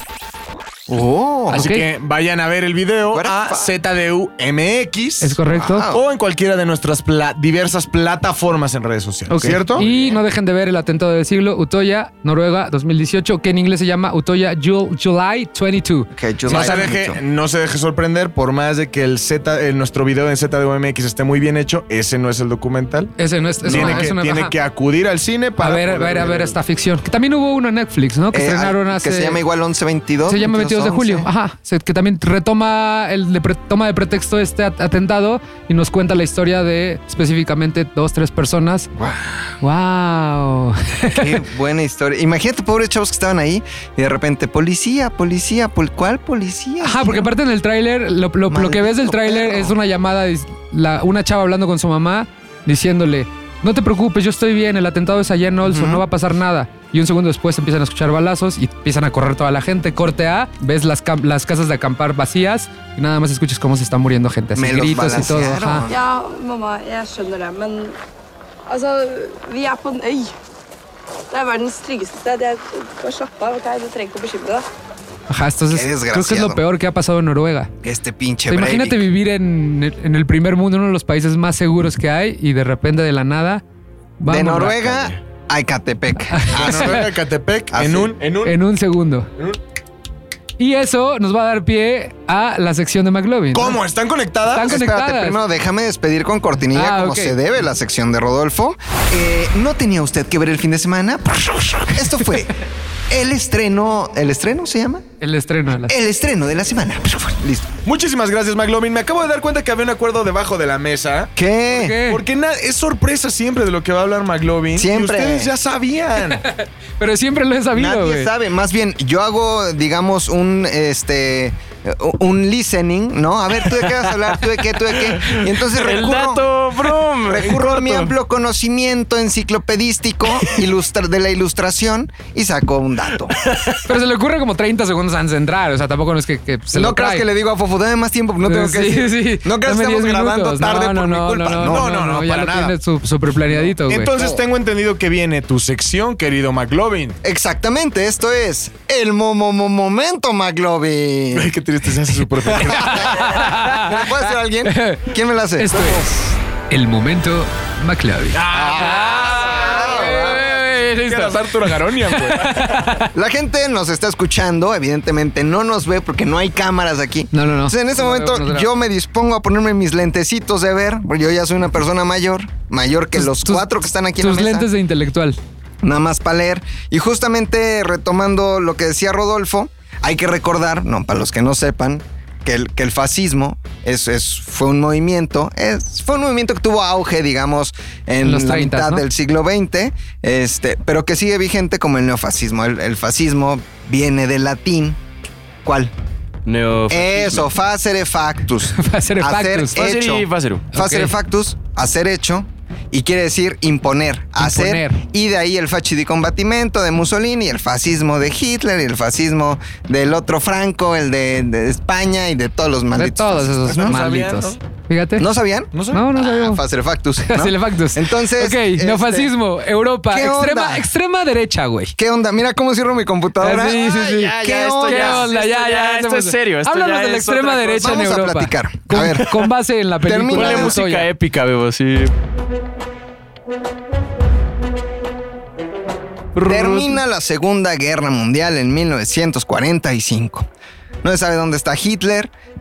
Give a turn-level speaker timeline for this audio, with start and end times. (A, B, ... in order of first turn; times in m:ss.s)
0:00.9-0:01.7 A
0:01.5-0:01.9 B
0:01.5-0:05.4 C
0:03.1-0:03.7 A
0:05.2-0:05.9 B
0:05.5-0:06.0 A
0:05.9-0:09.9 C
0:09.3-0:16.8 B
0:09.4-0:10.2 A
0:16.1-0:17.2 A
0:16.5-0:26.6 C
0:23.2-0:24.6 B
0:23.7-0:24.1 A
0:25.6-0:29.4 B
0:28.3-0:31.3 A
0:30.3-0:38.9 B
0:39.0-0:39.5 A
0:39.6-0:41.4 B
0:41.1-0:47.3 A
0:46.8-1:05.9 B
0:48.5-0:49.8 A
0:55.6-0:56.0 A
1:04.6-1:06.0 A
1:05.9-1:08.0 D
1:08.7-1:10.3 D
1:11.3-1:14.6 D
1:15.3-1:17.7 B
1:15.7-1:16.6 A
1:17.8-1:19.1 A
1:18.5-1:23.6 B
1:24.2-1:25.0 B
1:24.3-1:27.1 A
1:26.3-1:27.1 B
1:26.5-1:28.6 C
1:27.7-1:28.2 A
1:28.4-1:29.3 B
1:30.6-1:33.8 B
1:33.5-1:34.8 C
1:34.5-1:35.4 B
1:34.6-1:42.5 A
1:36.7-1:37.4 B
1:43.1-1:45.0 A
1:45.2-1:46.0 B
1:45.9-1:47.7 A
1:47.8-1:51.3 C
1:51.4-1:52.0 A
1:51.7-1:52.2 B
1:52.0-1:56.4 C
1:54.7-1:55.5 A
1:56.4-1:58.3 B
1:57.7-2:06.4 A
2:04.9-2:08.1 E
2:07.2-2:13.4 A
2:13.4-2:13.8 E
2:13.8-2:17.2 B
2:16.7-2:21.9 A
2:18.4-2:24.1 B
2:21.6-2:22.8 C
2:23.5-2:27.2 C
2:27.2-2:31.5 A
2:31.3-2:33.4 C
2:32.5-2:36.0 A
2:32.7-2:34.0 B
2:34.6-2:36.1 B
2:36.7-2:43.1 B
2:38.3-2:42.9 C
2:38.5-2:40.5 A
2:43.1-2:54.7 A
2:47.3-2:48.7 B
2:53.2-2:55.4 B
2:55.8-3:15.0 A
3:08.2-3:09.0 B
3:15.6-3:15.9 A
3:16.5-3:17.5 E
3:16.9-3:34.0 A
3:18.7-3:19.8 B
3:19.8-3:20.7 E
3:20.7-3:21.2 B
3:24.4-3:25.0 B
3:33.0-3:35.3 B
3:33.7-3:34.6 C
3:35.2-3:39.3 A
3:35.7-3:36.0 C
3:35.9-3:36.6 B
3:37.2-3:42.0 B
3:40.1-3:40.9 A
3:42.0-3:45.3 A
3:43.4-3:51.1 B
3:43.8-3:48.0 E
3:47.8-3:49.4 A
3:50.0-3:50.8 A
3:50.3-3:52.1 E
3:56.4-3:56.9 E
3:56.4-4:00.5 A
4:01.0-4:02.3 A